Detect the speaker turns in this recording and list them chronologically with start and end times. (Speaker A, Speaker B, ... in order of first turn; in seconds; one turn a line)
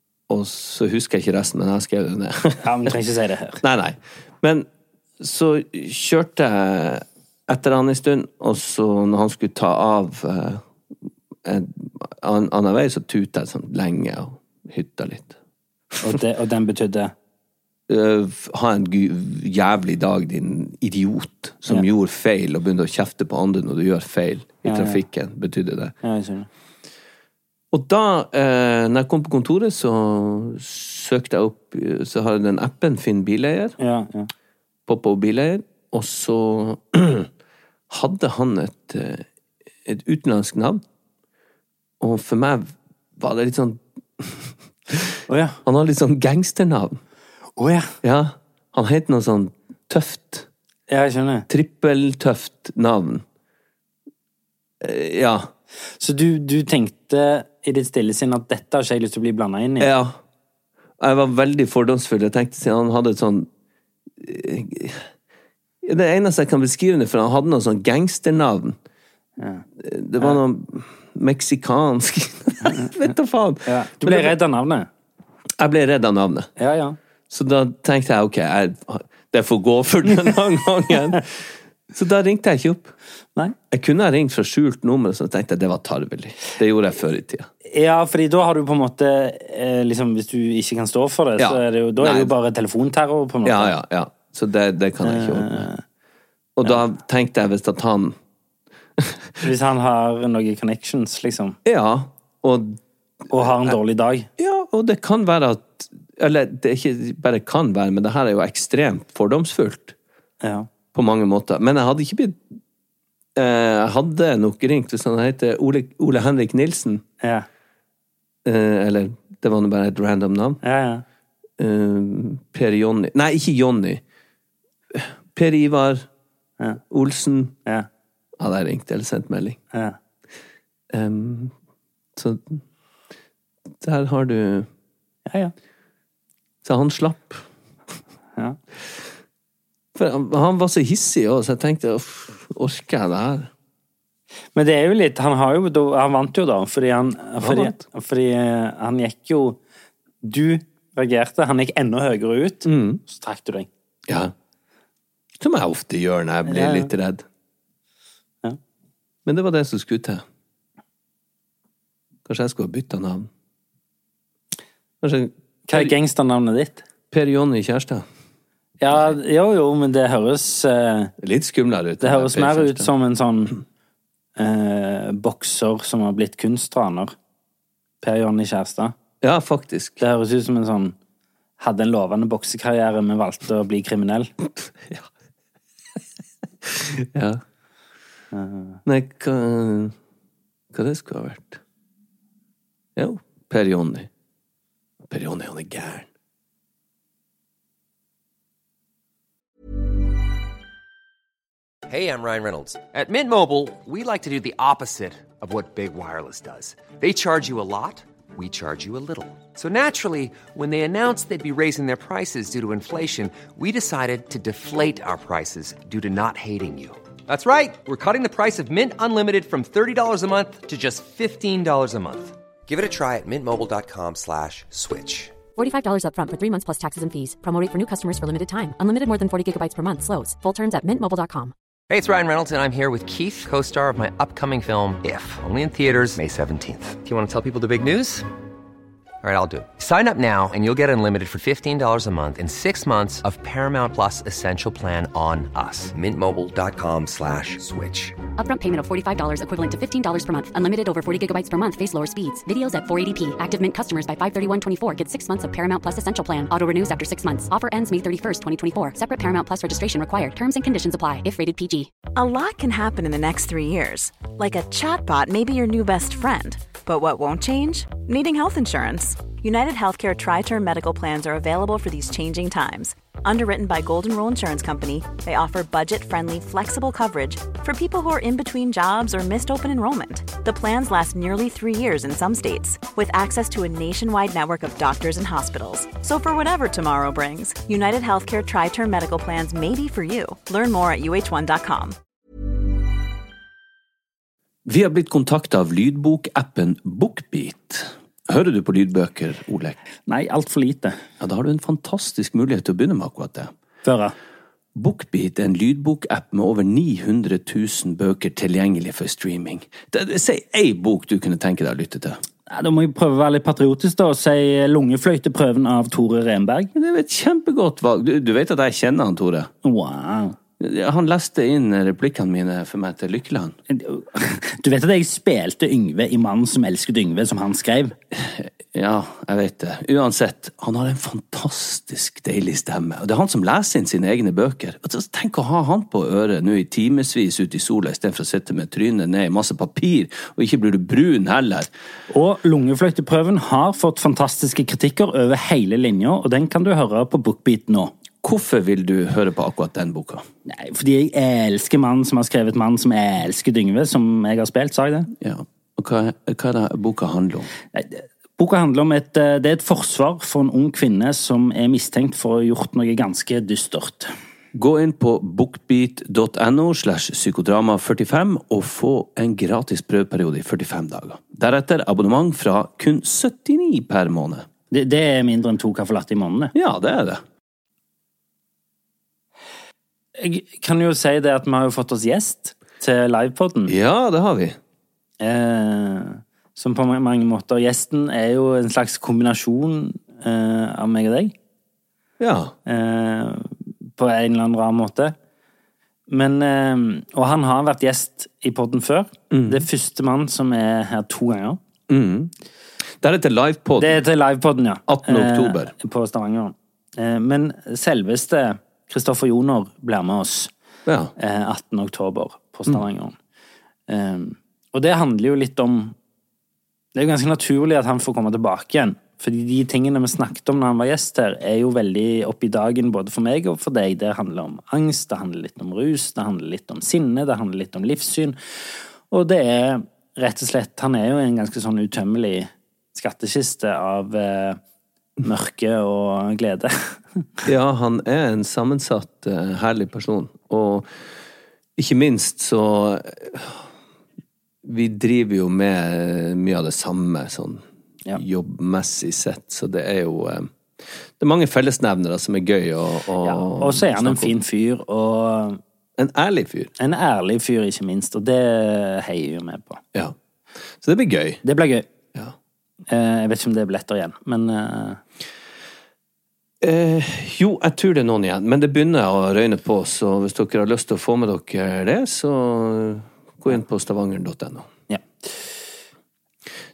Speaker A: 0.3-3.0
Speaker B: 2.6-3.6
Speaker A: 3.6-4.7
Speaker A: 5.2-10.6
Speaker A: 11.4-15.4
Speaker A: 15.9-16.2
Speaker B: 16.0-17.1
Speaker A: 17.9-25.9
Speaker B: 24.6-25.0
Speaker B: 26.0-26.5
Speaker A: 27.7-33.8
Speaker B: 33.8-34.3
Speaker A: 34.9-37.3
Speaker A: 37.9-39.2
Speaker A: 39.8-40.8
Speaker A: 42.0-47.0
Speaker B: 45.3-45.6
Speaker B: 47.6-47.9
Speaker A: 48.0-50.5
Speaker B: 50.9-51.5
Speaker A: 51.5-53.2
Speaker A: 54.8-55.5
Speaker B: 56.0-59.9
Speaker A: 59.8-60.2
Speaker A: 61.0-63.5
Speaker A: 64.2-65.0
Speaker A: 65.8-68.8
Speaker B: 69.4-69.6
Speaker A: 69.8-74.3
Speaker B: 72.6-72.9
Speaker B: 73.7-74.9
Speaker A: 75.6-76.5
Speaker B: 76.6-77.0
Speaker A: 77.3-82.9
Speaker A: 83.7-87.5
Speaker B: 87.7-93.8
Speaker A: 91.4-92.3
Speaker A: 93.4-95.7
Speaker B: 95.0-95.8
Speaker A: 96.5-98.2
Speaker B: 99.4-101.6
Speaker A: 101.6-103.8
Speaker B: 103.3-104.3
Speaker A: 104.4-109.9
Speaker B: 110.4-110.7
Speaker A: 110.9-112.4
Speaker A: 113.3-117.0
Speaker B: 117.2-117.5
Speaker A: 118.4-120.6
Speaker B: 120.6-121.0
Speaker A: 121.6-124.0
Speaker A: 124.9-126.1
Speaker A: 126.9-127.5
Speaker A: 128.4-129.6
Speaker A: 130.9-131.5
Speaker A: 132.2-132.6
Speaker A: 133.8-134.7
Speaker B: 135.3-135.5
Speaker A: 136.6-137.4
Speaker A: 139.9-143.5
Speaker B: 144.5-149.6
Speaker A: 147.4-147.8
Speaker B: 150.2-153.7
Speaker A: 152.6-153.0
Speaker A: 154.1-154.3
Speaker A: 155.4-157.2
Speaker B: 156.5-156.9
Speaker A: 159.2-160.2
Speaker A: 162.2-163.3
Speaker A: 165.0-165.9
Speaker B: 165.7-166.8
Speaker A: 167.1-168.0
Speaker B: 168.8-171.1
Speaker A: 171.2-172.9
Speaker B: 172.0-173.6
Speaker B: 174.4-177.1
Speaker B: 178.0-178.9
Speaker A: 179.2-180.0
Speaker B: 180.0-180.9
Speaker B: 181.6-184.3
Speaker A: 184.6-185.1
Speaker A: 186.6-187.4
Speaker B: 188.3-188.8
Speaker A: 188.8-189.9
Speaker A: 190.7-191.6
Speaker A: 192.9-194.1
Speaker A: 195.0-196.1
Speaker C: 201.9-225.3
Speaker D: 225.6-231.5
Speaker C: 231.9-238.2
Speaker C: 239.2-248.2
Speaker D: 248.4-261.9
Speaker E: 262.1-291.9
Speaker A: 294.6-299.8
Speaker B: 300.1-301.0
Speaker A: 301.2-303.5
Speaker B: 303.8-304.1
Speaker A: 304.7-312.2
Speaker B: 312.5-316.7
Speaker A: 316.7-319.5
Speaker B: 319.6-320.4
Speaker A: 320.6-323.6
Speaker B: 323.7-327.9
Speaker A: 328.1-341.7
Speaker B: 342.1-347.9
Speaker A: 348.2-350.2
Speaker B: 350.4-355.1
Speaker A: 355.1-357.5
Speaker B: 357.7-364.1
Speaker A: 364.5-374.5
Speaker B: 374.7-376.5
Speaker A: 376.5-377.2
Speaker B: 380.2-383.7
Speaker A: 383.7-384.6
Speaker B: 385.2-391.3
Speaker A: 392.2-392.5
Speaker B: 392.6-395.1
Speaker B: 396.1-401.6
Speaker A: 399.3-399.7
Speaker A: 401.9-402.3
Speaker A: 403.0-404.0
Speaker B: 403.8-410.5
Speaker A: 404.9-405.7
Speaker A: 410.9-411.1
Speaker B: 411.2-413.2
Speaker B: 413.9-415.9
Speaker B: 416.9-428.4
Speaker B: 429.1-434.6
Speaker B: 435.2-437.2
Speaker A: 437.4-440.9
Speaker A: 441.8-443.6
Speaker A: 444.6-447.6
Speaker A: 448.1-450.5
Speaker A: 451.2-454.3
Speaker B: 453.2-455.6
Speaker A: 456.0-456.7
Speaker B: 456.8-459.8
Speaker A: 460.8-461.4
Speaker B: 461.4-461.9
Speaker B: 462.9-465.0
Speaker A: 466.6-474.7